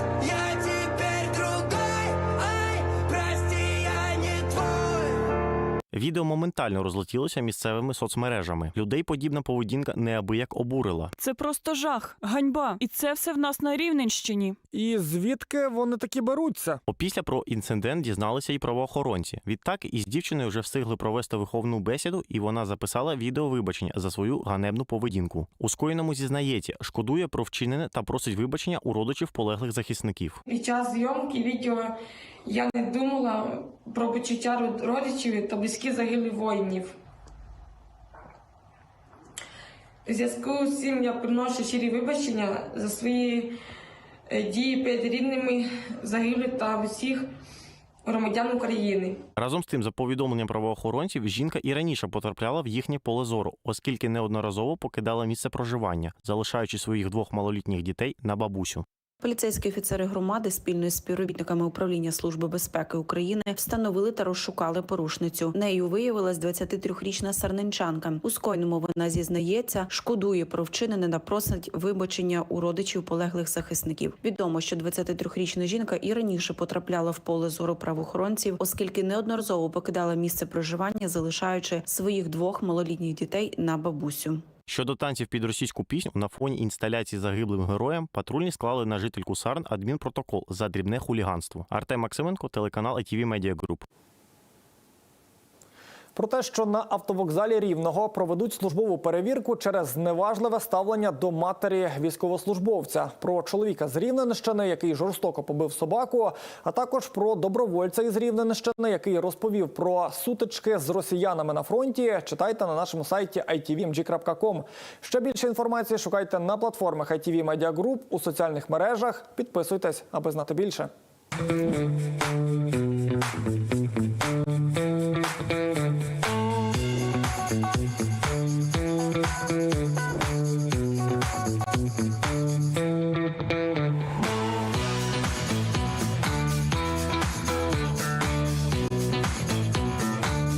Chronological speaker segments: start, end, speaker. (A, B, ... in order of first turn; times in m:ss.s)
0:05.9-0:11.1 A
0:11.2-0:14.6 B
0:14.7-0:16.8 C
0:16.9-0:30.4 A
0:30.5-0:31.9 D
0:32.4-0:36.9 D
0:40.1-0:43.5 D
0:44.3-0:47.3 D
0:48.0-0:49.2 D
0:49.4-0:58.8 A
0:59.2-1:24.4 E
1:24.7-1:33.8 A
1:36.2-2:00.9 C